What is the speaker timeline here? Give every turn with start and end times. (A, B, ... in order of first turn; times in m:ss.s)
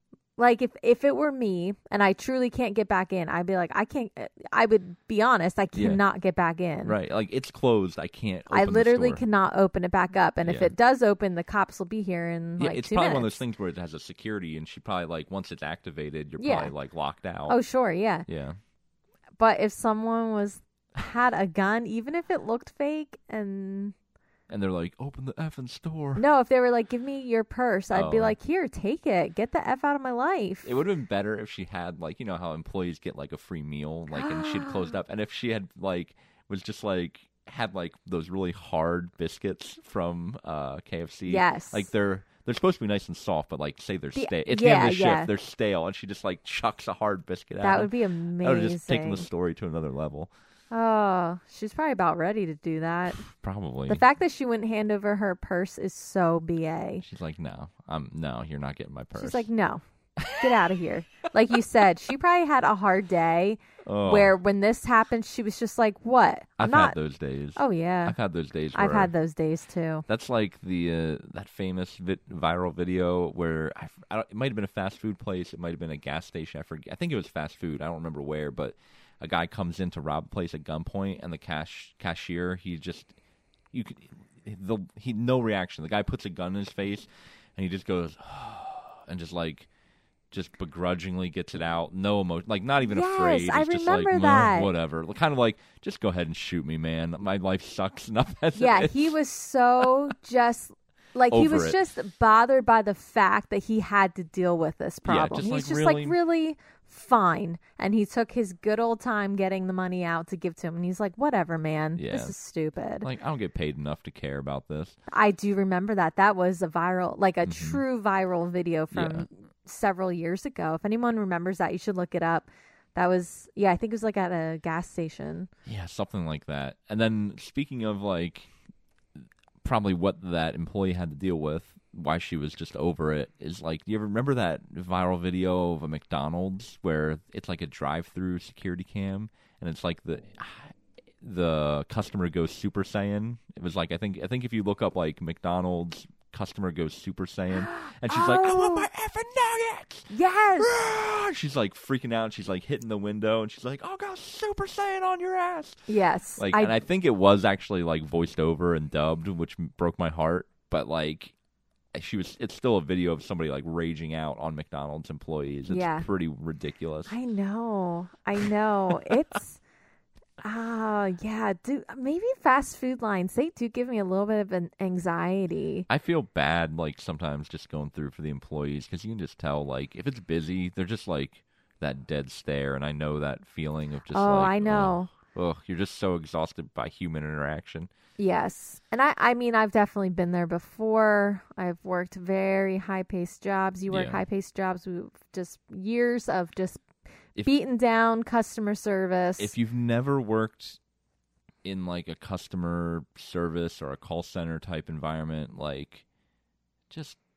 0:00.4-0:07.0 A
0:05.7-0:06.0 B
0:06.8-0:09.2 B
0:08.5-0:13.4 A
0:10.4-0:10.7 B
0:12.6-0:17.6 B
0:16.4-0:16.7 A
0:17.5-0:18.2 A
0:18.3-0:18.6 B
0:19.4-0:23.9 A
0:24.5-0:26.2 B
0:26.2-0:30.7 A
0:27.9-0:28.4 B
0:30.6-0:50.3 B
0:34.1-0:35.0 A
0:41.3-0:41.9 A
0:44.1-0:45.3 A
0:47.6-0:49.3 A
0:50.7-0:53.2 A
0:53.2-0:54.0 B
0:53.9-0:57.0 A
0:57.0-0:59.4 B
0:59.2-1:06.9 A
1:00.2-1:00.6 B
1:03.8-1:04.3 B
1:06.6-1:09.1 B
1:07.6-1:08.2 A
1:08.7-1:10.0 A
1:10.1-1:23.1 B
1:23.7-1:29.7 B
1:30.3-1:39.1 B
1:32.8-1:34.7 A
1:38.6-1:53.1 A
1:41.3-1:41.8 B
1:45.0-1:46.2 B
1:52.0-1:52.3 B
1:53.0-1:55.0 B
1:55.1-2:05.5 A
1:57.4-1:57.8 B
1:58.9-1:59.2 B
2:05.6-2:08.5 B
2:09.6-2:35.8 B
2:27.5-2:28.9 A
2:30.1-2:30.7 A
2:35.9-2:36.8 A
2:36.4-2:41.3 B
2:41.9-2:47.1 B
2:45.7-2:46.1 A
2:47.1-2:49.6 A
2:50.4-2:55.9 A
2:55.9-3:07.9 B
3:04.1-3:05.1 A
3:08.2-3:16.8 A
3:13.9-3:14.2 B
3:17.4-3:19.5 A
3:19.4-3:20.8 B
3:21.6-3:26.0 B
3:26.9-3:27.2 B